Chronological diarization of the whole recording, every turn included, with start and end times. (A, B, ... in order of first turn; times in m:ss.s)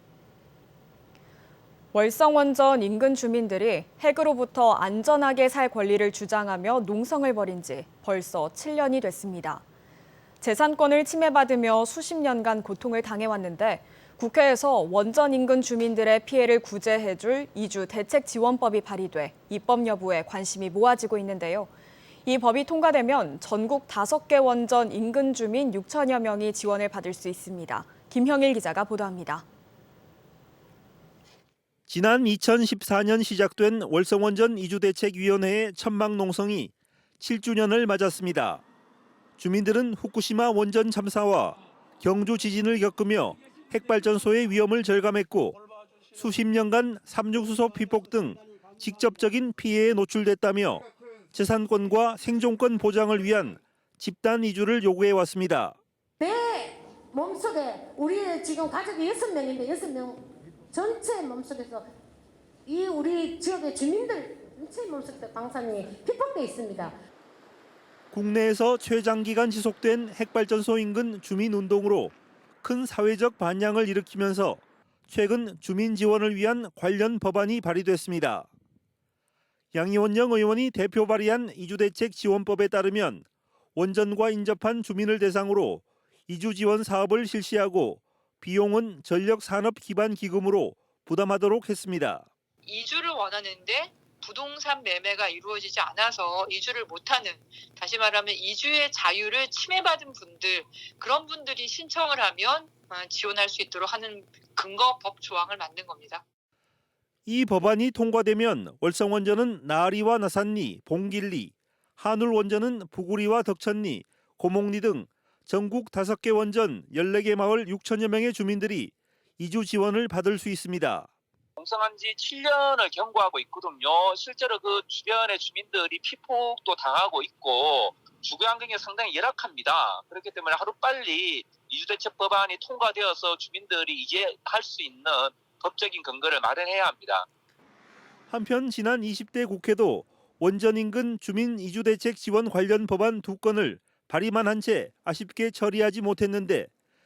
0:01.9-0:09.6 A
0:10.4-0:21.7 A
0:22.2-0:29.4 A
0:31.9-0:38.6 B
0:39.4-0:45.6 B
0:46.1-0:55.8 B
0:56.2-1:01.9 C
1:02.7-1:07.0 C
1:08.1-1:18.5 B
1:19.7-1:32.3 B
1:32.6-1:46.2 D
1:47.3-2:01.1 B
2:01.6-2:17.3 E
2:18.3-2:26.7 B